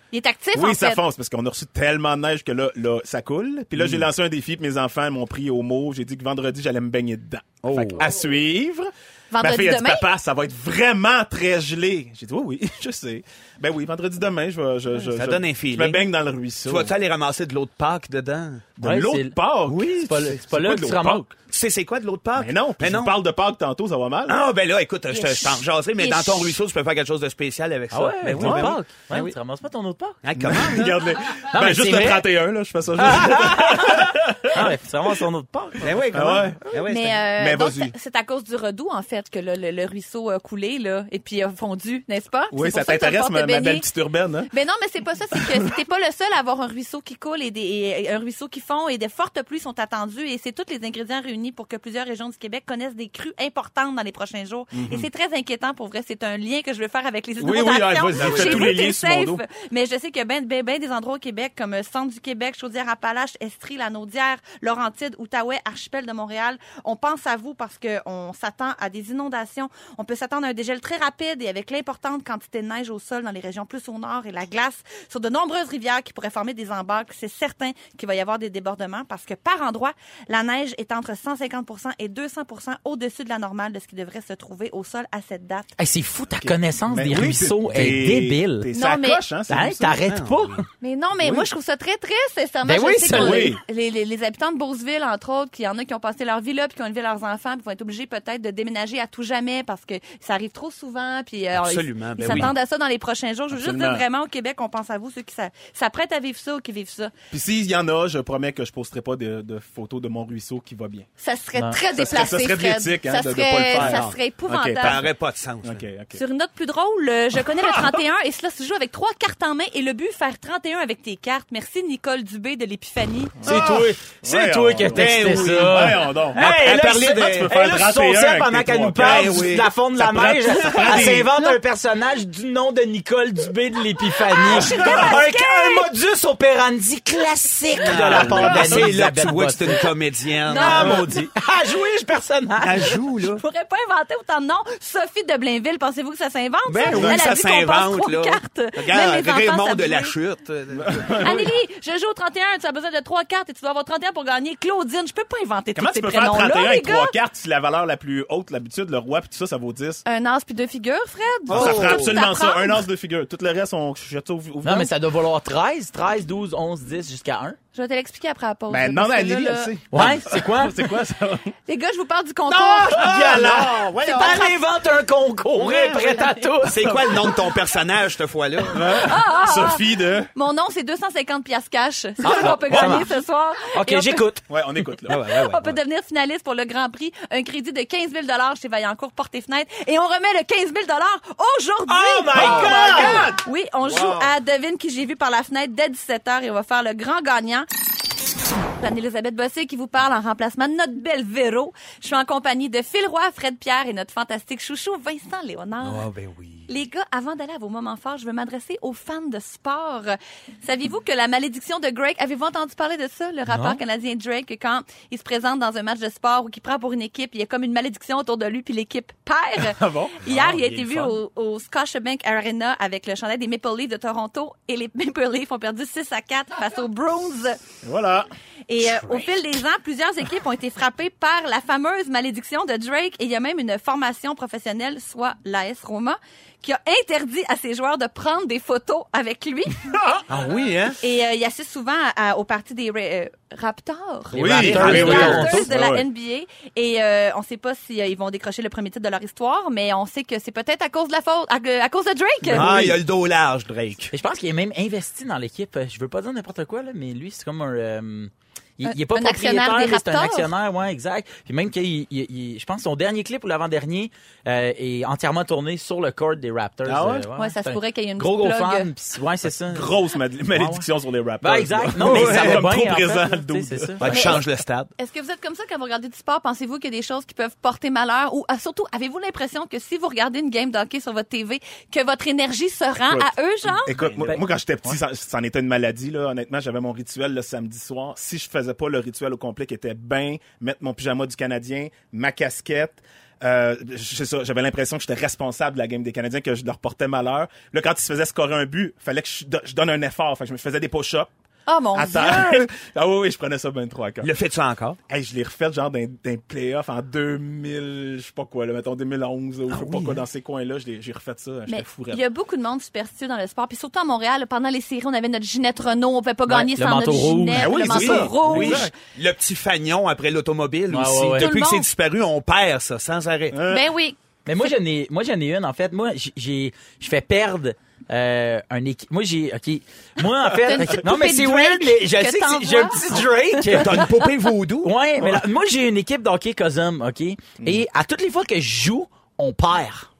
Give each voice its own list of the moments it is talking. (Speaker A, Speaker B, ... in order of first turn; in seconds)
Speaker A: 0.1-1.0, 9.3-10.1, 25.1-26.6, 36.9-43.8, 44.5-85.7, 88.7-89.2, 90.8-107.1, 111.2-115.1, 116.1-123.4, 134.3-135.9, 138.2-138.8, 140.4-141.2, 143.2-150.1, 151.2-157.1, 160.1-162.8, 167.7-169.8, 171.7-174.5, 175.6-176.5, 178.8-184.3, 185.1-197.7, 198.8-206.1, 206.7-227.6, 228.7-239.9, 241.0-252.7, 258.9-260.5, 267.4-268.9, 274.1-274.4, 275.0-283.9, 301.7-302.6, 311.7-318.9, 321.3-321.9, 323.7-324.2, 330.6-334.3
Speaker B: 0.5-16.9, 18.8-21.3, 22.4-24.4, 28.2-28.8, 30.4-34.7, 36.1-36.6, 37.4-37.9, 42.5-44.5, 45.4-45.7, 54.7-55.1, 57.4-59.4, 86.4-90.0, 93.1-93.6, 102.2-102.5, 103.5-104.0, 107.3-111.0, 111.9-115.1, 115.6-116.2, 117.6-118.0, 123.4-131.3, 134.5-135.1, 138.0-138.9, 146.9-147.3, 150.7-151.5, 155.7-160.0, 161.5-164.9, 168.7-171.5, 173.0-174.4, 178.7-180.3, 182.3-183.0, 184.5-185.2, 192.3-194.2, 219.6-220.3, 227.8-228.3, 239.9-240.2, 244.3-246.0, 252.5-253.0, 266.8-267.3, 269.6-274.3, 283.1-301.3, 301.9-304.3, 305.1-312.2, 317.5-318.9, 323.5-323.8
Speaker C: 3.8-4.1, 7.6-8.1, 15.1-16.0, 16.6-18.7, 19.6-20.0, 21.5-23.1, 24.3-29.3, 30.2-31.0, 35.8-37.2, 58.2-58.7, 90.1-90.7, 101.6-102.5, 113.7-114.2, 114.8-115.8, 124.8-127.6, 129.0-129.7, 130.6-131.2, 137.8-141.0, 142.6-143.4, 146.7-151.4, 161.5-162.2, 176.6-179.0, 185.1-185.8, 205.8-206.7, 240.3-241.0, 244.3-245.5, 252.5-254.1, 272.0-272.6, 274.0-274.9, 304.2-305.0, 309.7-310.2, 317.9-323.6, 333.7-334.9
Speaker D: 7.7-8.0, 18.8-19.4, 20.0-21.2, 27.9-30.6, 31.4-32.2, 33.0-35.9, 85.8-88.7, 89.5-90.6, 92.6-93.6, 123.4-139.8, 140.5-143.0, 164.6-167.6, 169.9-170.9, 172.5-177.1, 182.2-183.2, 183.7-184.4, 191.9-193.3, 213.5-213.8, 220.3-221.0, 244.3-245.7, 254.1-270.0, 270.5-270.9, 271.4-274.1, 283.9-284.9, 316.5-317.8, 320.9-321.5, 324.4-334.1, 334.8-340.1